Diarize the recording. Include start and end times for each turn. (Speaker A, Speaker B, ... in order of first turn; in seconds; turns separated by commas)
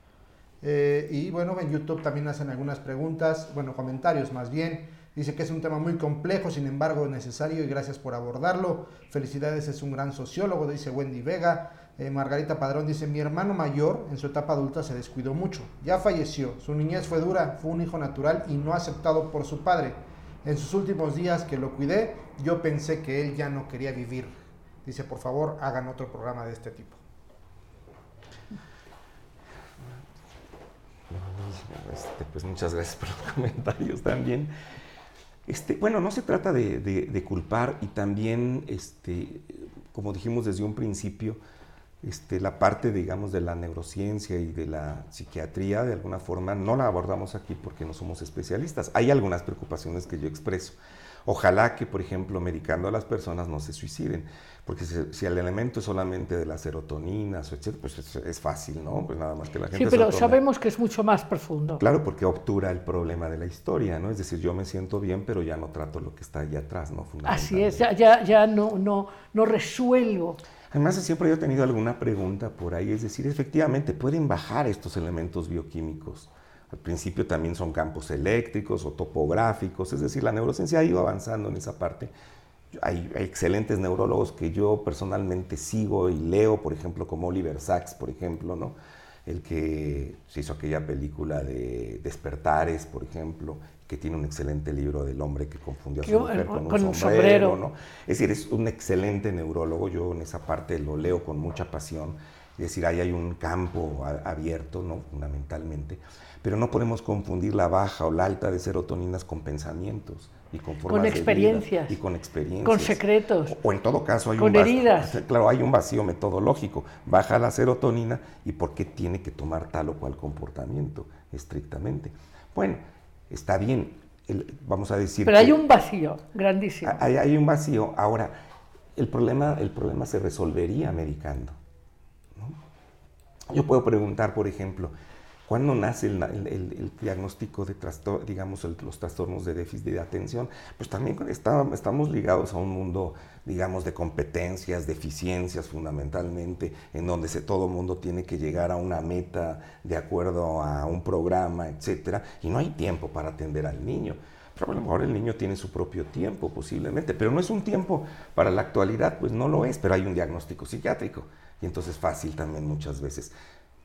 Speaker A: 0.6-27.0, Speaker B: 31.1-34.5, Speaker B: 35.5-41.4, Speaker B: 42.0-60.4, Speaker C: 59.7-61.8, Speaker B: 61.8-67.9, Speaker C: 67.2-70.4, Speaker B: 70.7-82.1, Speaker B: 82.7-125.6, Speaker C: 96.0-97.6, Speaker C: 110.9-112.0, Speaker C: 112.6-113.6, Speaker C: 114.4-115.2, Speaker C: 125.2-127.0, Speaker B: 126.8-128.4, Speaker B: 129.0-131.6, Speaker B: 133.5-134.9, Speaker B: 135.5-163.3